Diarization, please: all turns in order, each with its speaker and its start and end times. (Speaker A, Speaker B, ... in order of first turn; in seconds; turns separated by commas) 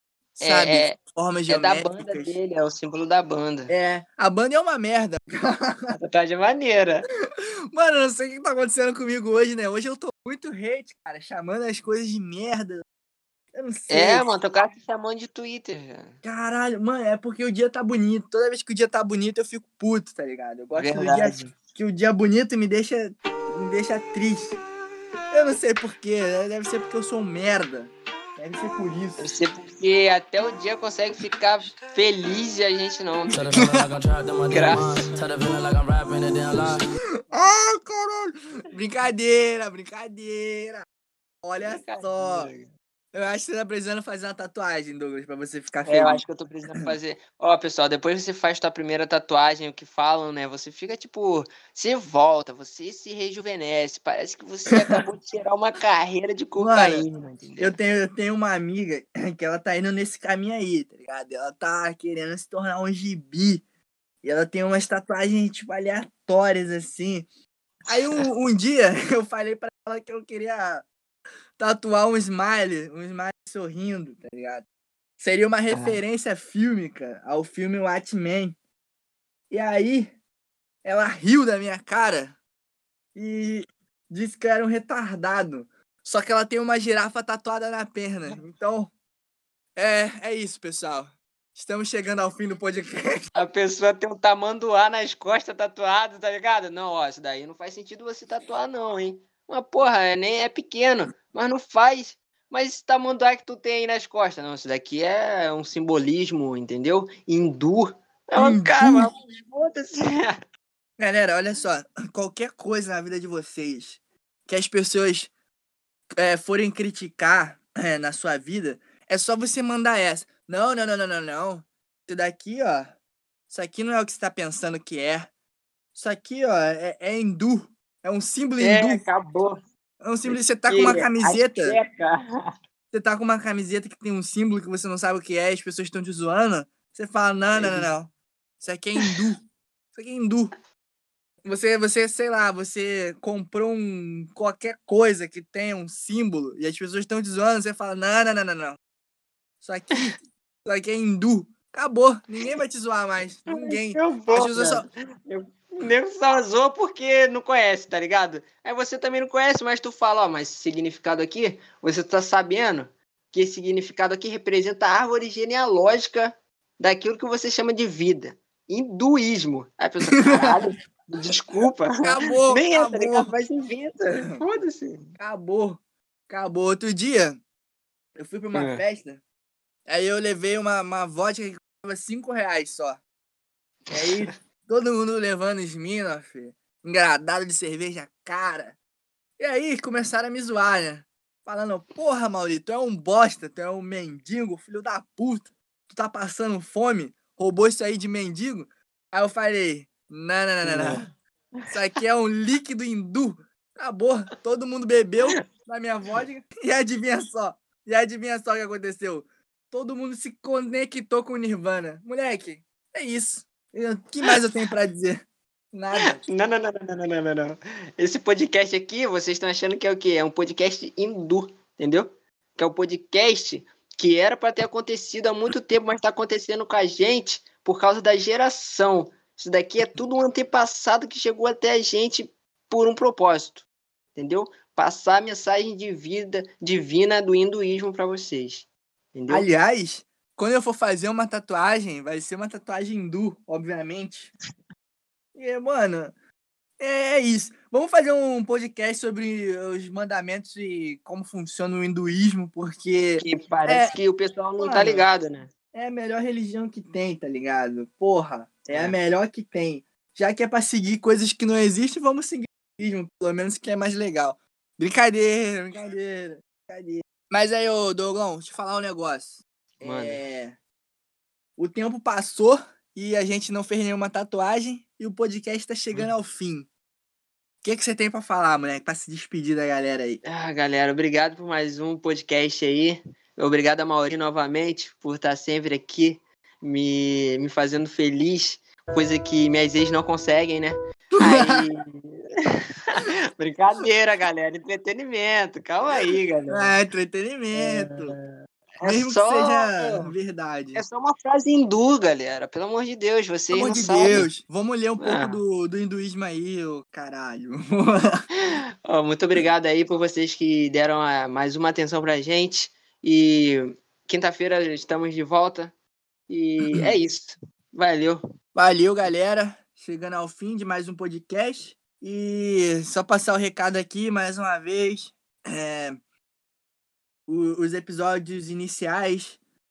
Speaker A: 0.4-1.0, Speaker B: 0.4-2.4, Speaker A: 1.5-3.7, Speaker B: 3.7-6.0, Speaker A: 6.0-7.1, Speaker B: 7.7-12.8, Speaker B: 13.5-14.3, Speaker A: 13.9-16.2, Speaker B: 16.2-24.6, Speaker A: 20.8-21.5, Speaker B: 25.3-29.3, Speaker A: 29.2-33.4, Speaker C: 33.3-36.9, Speaker B: 33.5-33.9, Speaker A: 34.5-35.1, Speaker B: 37.3-40.9, Speaker B: 41.4-42.5, Speaker A: 41.6-42.7, Speaker B: 43.1-46.2, Speaker A: 45.9-57.8, Speaker B: 56.6-57.0, Speaker B: 57.6-63.6, Speaker B: 64.2-67.3, Speaker B: 67.9-70.8, Speaker B: 71.6-74.7, Speaker B: 75.2-78.6, Speaker A: 75.7-76.0, Speaker B: 79.5-80.2, Speaker B: 80.8-82.4, Speaker B: 83.2-88.9, Speaker B: 89.8-93.2, Speaker A: 93.3-110.4, Speaker B: 108.4-109.1, Speaker B: 111.0-115.3, Speaker B: 116.1-123.0, Speaker B: 123.5-125.3, Speaker B: 126.0-129.1, Speaker A: 128.6-129.6, Speaker B: 130.0-131.8, Speaker A: 130.2-132.5, Speaker B: 132.9-139.4, Speaker A: 137.5-137.9, Speaker B: 139.9-140.5, Speaker B: 141.4-148.8, Speaker B: 149.6-154.9, Speaker A: 153.5-175.1, Speaker B: 170.2-170.6, Speaker B: 171.6-173.3, Speaker B: 175.2-177.4, Speaker B: 178.2-179.2, Speaker A: 178.5-178.8, Speaker B: 179.9-183.0, Speaker B: 183.9-188.8, Speaker A: 183.9-184.3, Speaker B: 189.4-201.1, Speaker A: 200.6-201.1, Speaker B: 201.7-216.2, Speaker A: 216.0-239.5, Speaker B: 239.3-244.3, Speaker B: 245.3-246.1, Speaker B: 246.8-253.9, Speaker A: 253.2-255.5, Speaker B: 254.6-255.1, Speaker B: 255.7-270.6, Speaker A: 258.7-259.0, Speaker A: 269.8-270.2, Speaker B: 271.6-276.7, Speaker B: 277.6-280.2, Speaker A: 280.2-296.8, Speaker B: 291.1-291.7, Speaker B: 296.5-298.2, Speaker A: 297.5-300.1, Speaker B: 298.8-300.8, Speaker A: 300.8-304.3, Speaker B: 303.5-308.3, Speaker A: 305.0-305.4, Speaker A: 308.5-315.7, Speaker A: 316.3-318.2, Speaker B: 316.6-317.0, Speaker B: 318.6-326.0, Speaker B: 327.3-329.4